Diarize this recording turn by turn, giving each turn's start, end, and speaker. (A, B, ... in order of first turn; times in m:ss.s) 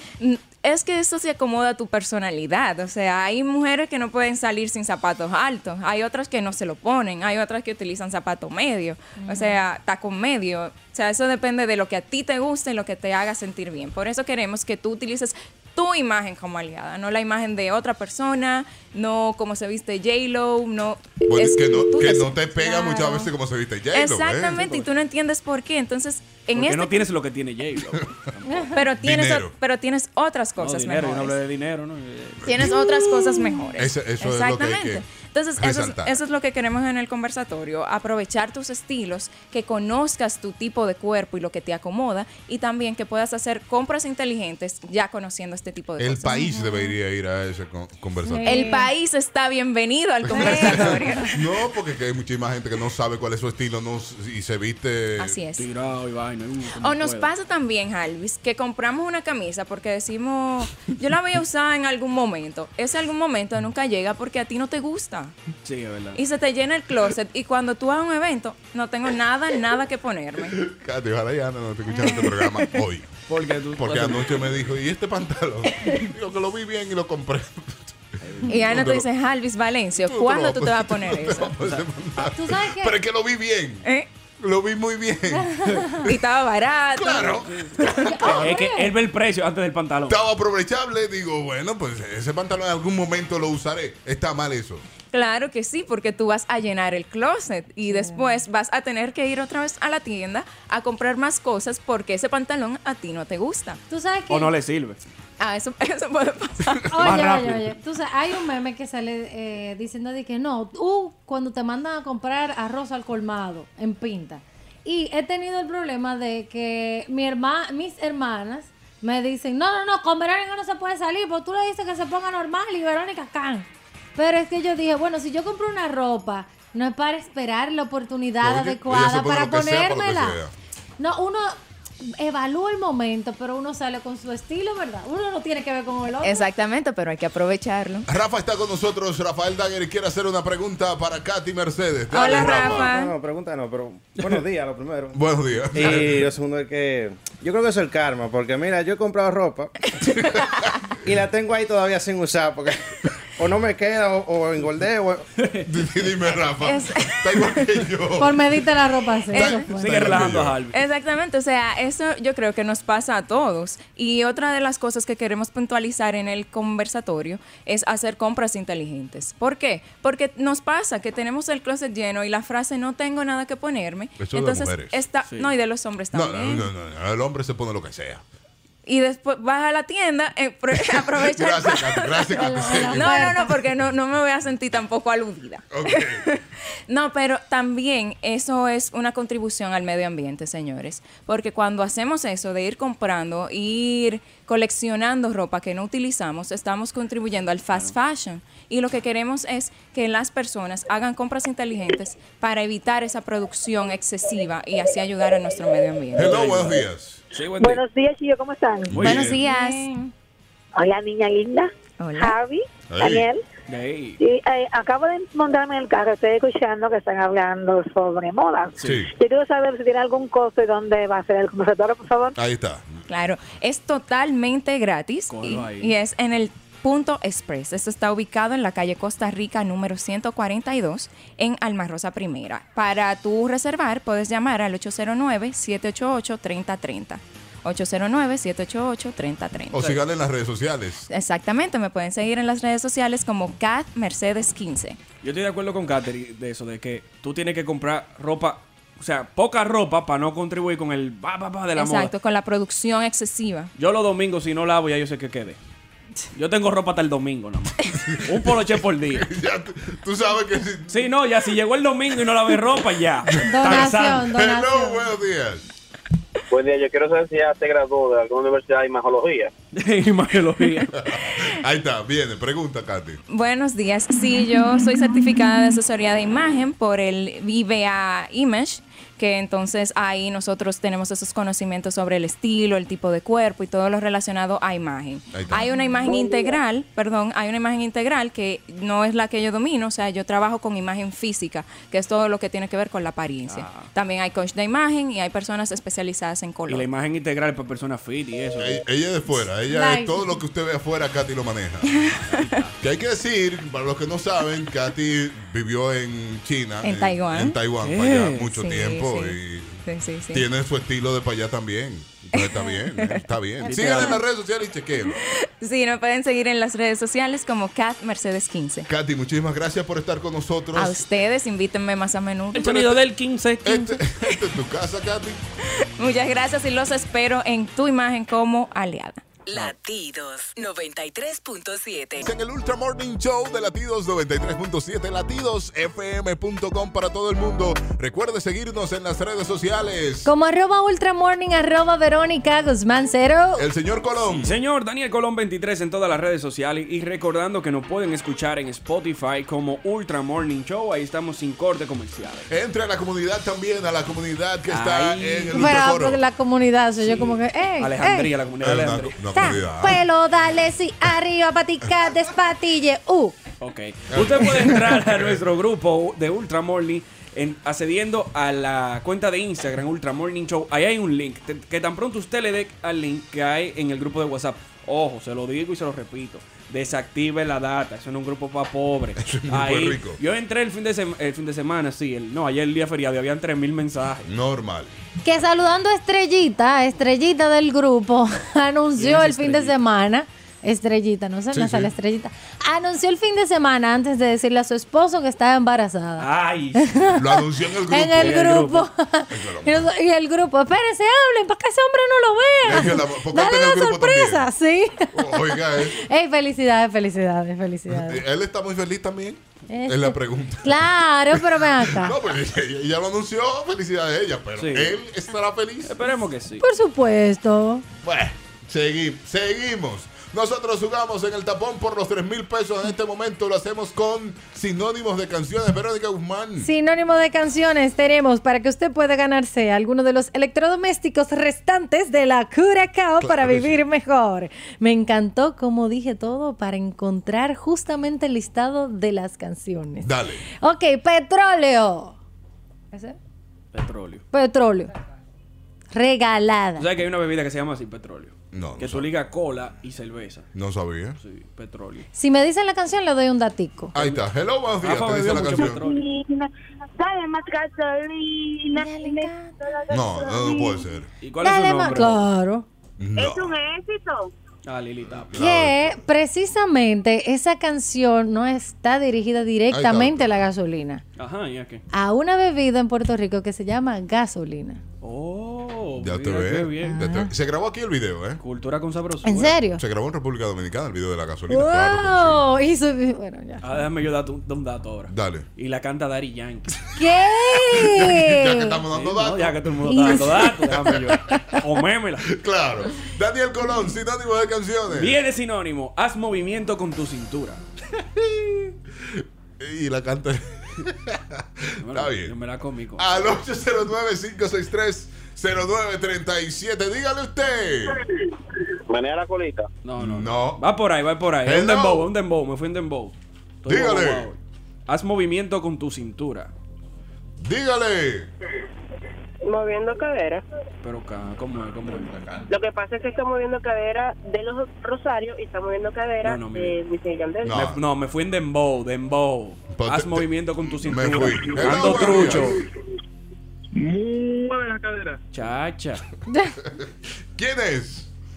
0:00.2-0:23.3 A
0:09.2-0:09.6 B
0:21.3-0:24.5 C
0:23.9-0:27.1 A
0:24.4-0:24.9 D
0:26.5-0:28.7 D
0:28.5-0:28.8 B
0:28.7-0:31.4 A
0:29.0-0:29.5 C
0:30.6-0:32.5 D
0:32.4-0:46.6 A
0:32.7-0:33.7 B
0:33.8-0:35.0 C
0:35.6-0:36.2 C
0:46.0-0:48.7 C
0:46.3-0:46.9 B
0:48.2-0:48.9 B
0:48.4-0:51.4 A
0:50.3-0:51.3 B
0:50.5-0:55.4 C
0:50.5-0:50.9 D
0:55.2-0:55.7 A
0:55.6-0:57.3 D
0:56.8-1:05.3 A
1:05.6-1:06.2 D
1:06.1-1:10.5 A
1:10.5-1:13.1 C
1:11.9-1:12.6 A
1:13.3-1:14.7 D
1:13.7-1:18.0 C
1:18.2-1:18.7 D
1:18.5-1:21.5 A
1:18.7-1:19.0 C
1:20.0-1:23.8 C
1:21.6-1:21.8 D
1:22.2-1:23.0 B
1:23.8-1:24.1 A
1:24.4-1:25.6 C
1:25.3-1:26.1 B
1:26.0-1:28.1 A
1:27.0-1:28.6 C
1:27.1-1:27.8 D
1:28.0-1:28.9 B
1:28.4-1:30.2 D
1:30.1-1:34.8 C
1:35.1-1:43.8 A
1:37.8-1:38.4 B
1:43.9-1:44.5 B
1:44.3-1:45.0 D
1:45.4-1:46.9 A
1:46.9-2:10.4 B
1:47.0-1:47.7 D
2:08.4-2:10.5 C
2:11.0-2:16.5 B
2:16.2-2:18.1 A
2:18.1-2:22.9 C
2:22.1-2:23.1 A
2:22.2-2:25.2 E
2:25.1-2:26.2 C
2:25.7-2:29.7 E
2:30.0-2:30.7 C
2:30.0-2:30.5 A
2:31.0-2:32.8 E
2:33.4-2:35.2 E
2:35.4-2:35.7 D
2:35.6-2:38.6 C
2:36.6-2:37.7 A
2:38.2-2:40.0 B
2:39.3-2:40.2 A
2:39.3-2:40.6 C
2:39.7-2:40.8 D
2:40.7-2:56.7 A
2:54.2-2:55.0 C
2:55.2-2:55.5 D
2:56.1-2:58.2 C
2:58.8-3:26.3 A
3:00.8-3:03.5 C
3:02.3-3:03.6 B
3:05.7-3:06.2 C
3:17.7-3:17.9 D
3:26.2-3:27.2 C
3:26.2-3:27.8 D
3:27.6-3:29.0 F
3:28.9-3:29.4 C
3:28.9-3:29.4 D
3:29.0-3:30.1 A
3:29.2-3:29.9 B
3:30.8-3:33.4 F
3:32.0-3:32.3 A
3:32.9-3:33.3 C
3:33.7-3:34.2 D
3:34.2-3:42.4 F
3:38.8-3:39.0 D
3:42.3-3:43.0 C
3:43.1-3:59.9 A
3:45.3-3:45.9 D
3:59.7-4:01.0 C
4:01.1-4:05.0 A
4:05.2-4:12.1 D
4:11.7-4:13.7 A
4:13.8-4:15.6 D
4:16.3-4:19.3 D
4:17.9-4:20.9 C
4:20.9-4:24.3 D
4:23.2-4:25.6 C
4:23.4-4:25.1 B
4:26.5-4:29.5 G
4:29.7-4:30.9 D
4:30.9-4:33.2 C
4:33.3-4:56.9 A
4:45.3-4:45.6 C
4:53.4-4:53.9 D
4:56.7-4:58.8 D
4:58.6-5:01.9 C
4:59.7-5:00.3 B
5:01.8-5:02.6 A
5:02.2-5:02.7 D
5:02.8-5:15.2 C
5:06.8-5:07.6 A
5:07.8-5:08.6 D
5:08.5-5:10.4 A
5:12.3-5:14.2 A
5:13.6-5:14.2 D
5:15.2-5:18.9 A
5:18.9-5:21.0 C
5:20.7-5:22.9 A
5:22.5-5:24.0 D
5:23.6-5:25.4 C
5:26.0-5:29.4 A
5:29.4-5:32.3 H
5:32.2-5:40.3 C
5:40.2-5:43.6 B
5:43.6-5:44.6 C
5:44.2-5:52.5 D
5:52.5-5:56.2 C
5:54.7-5:55.8 D
5:55.5-5:58.3 B
5:57.1-5:59.2 D
5:58.6-6:00.0 C
5:59.3-6:03.4 B
6:03.6-6:24.3 D
6:04.1-6:05.4 C
6:19.2-6:20.2 C
6:24.2-6:24.9 C
6:25.2-6:37.2 B
6:29.0-6:29.8 D
6:31.5-6:31.9 C
6:36.2-6:37.1 D
6:37.2-6:38.6 C
6:37.9-6:48.2 B
6:38.2-6:38.9 D
6:39.3-6:39.9 C
6:42.6-6:44.5 C
6:45.1-6:46.0 C
6:47.9-6:55.9 C
6:49.7-6:52.2 B
6:54.6-6:55.0 D
6:55.8-6:56.6 D
6:56.6-6:57.8 B
6:58.0-7:06.7 C
7:06.6-7:22.2 B
7:13.2-7:13.8 C
7:20.0-7:20.4 C
7:22.9-7:23.2 B
7:23.7-7:24.2 D
7:24.3-7:25.0 B
7:25.9-7:26.9 B
7:26.8-7:30.5 D
7:28.5-7:29.1 C
7:30.5-7:31.2 C
7:31.2-7:32.1 D
7:32.1-7:33.9 B
7:33.9-7:35.8 C
7:34.8-7:36.0 D
7:35.6-7:40.9 I
7:38.7-7:39.5 B
7:39.9-7:41.1 C
7:41.2-7:42.2 D
7:41.4-7:42.6 B
7:43.0-7:43.5 C
7:43.2-7:44.3 I
7:44.6-7:45.3 D
7:45.2-7:46.0 C
7:45.3-7:51.0 B
7:49.7-7:50.4 C
7:51.2-7:51.8 D
7:51.9-7:54.8 B
7:55.0-7:57.0 D
7:56.0-7:58.4 C
7:56.8-7:57.3 B
7:58.4-7:59.6 D
7:59.2-7:59.8 B
7:59.7-8:02.4 C
8:01.5-8:03.8 B
8:03.6-8:06.8 D
8:05.1-8:05.4 C
8:07.0-8:08.8 B
8:07.5-8:11.2 C
8:08.9-8:12.3 D
8:09.8-8:10.5 B
8:12.3-8:15.2 C
8:14.9-8:17.6 D
8:18.2-8:22.3 C
8:21.8-8:23.2 D
8:23.0-8:28.0 C
8:28.9-8:29.7 G
8:29.8-8:36.5 D
8:30.0-8:30.6 C
8:31.4-8:32.1 C
8:33.6-8:34.3 C
8:37.4-8:38.3 C
8:39.4-8:40.4 J
8:40.8-8:42.2 D
8:42.5-8:47.6 J
8:46.2-8:46.8 D
8:47.4-8:47.8 C
8:47.5-8:52.6 D
8:49.7-8:52.6 C
8:51.4-8:52.3 K
8:53.7-8:55.2 K
8:55.3-8:56.0 D
8:56.3-8:56.5 B
8:56.6-8:58.1 C